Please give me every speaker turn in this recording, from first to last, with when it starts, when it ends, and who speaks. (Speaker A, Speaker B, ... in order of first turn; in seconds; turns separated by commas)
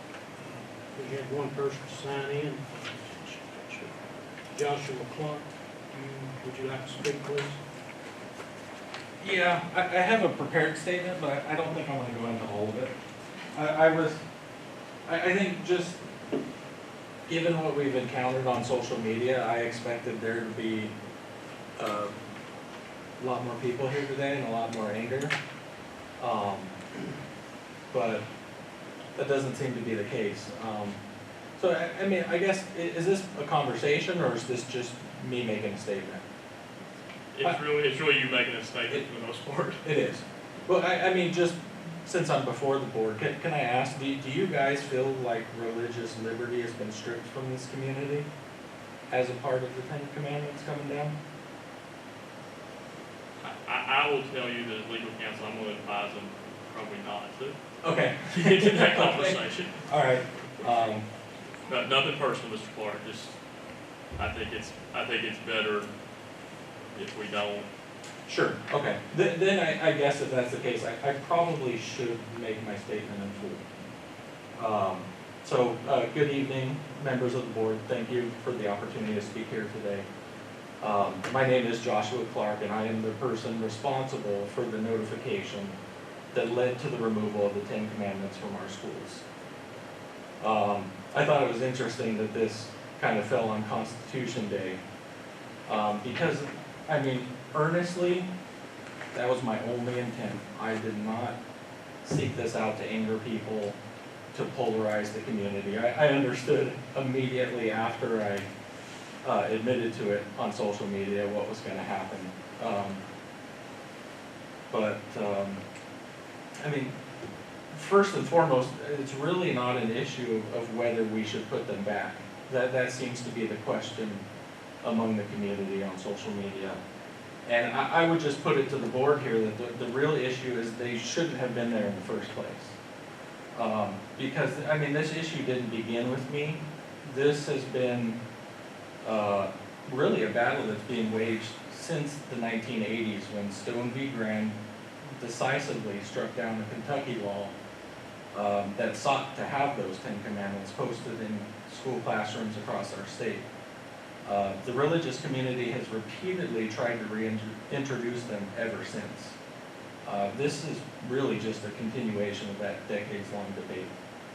Speaker A: 0.3-4.0, Speaker A: 4.5-7.6, Speaker B: 9.2-12.9, Speaker B: 13.5-14.2, Speaker B: 15.1-16.0, Speaker B: 17.3-20.9, Speaker B: 21.8-22.2, Speaker B: 23.2-25.3, Speaker B: 26.2-26.8, Speaker B: 27.9-28.2, Speaker B: 29.2-31.0, Speaker B: 31.6-36.2, Speaker C: 37.3-39.8, Speaker B: 39.8-48.3, Speaker B: 49.1-51.2, Speaker C: 53.4-57.6, Speaker B: 57.8-61.1, Speaker C: 58.3-59.8, Speaker C: 61.7-63.3, Speaker C: 64.2-65.9, Speaker C: 66.9-67.7, Speaker B: 68.3-73.6, Speaker B: 74.6-80.1, Speaker B: 80.8-85.8, Speaker B: 86.3-89.2, Speaker B: 90.4-94.8, Speaker B: 95.7-98.3, Speaker B: 99.1-101.4, Speaker B: 102.0-103.8, Speaker B: 104.3-108.5, Speaker B: 109.2-113.0, Speaker B: 114.7-115.6, Speaker B: 116.6-116.9, Speaker B: 117.7-124.2, Speaker B: 124.8-126.8, Speaker B: 127.5-132.8, Speaker B: 133.5-138.2, Speaker B: 139.0-144.6, Speaker B: 145.2-147.6, Speaker B: 148.3-153.4, Speaker B: 154.2-159.4, Speaker B: 160.1-163.9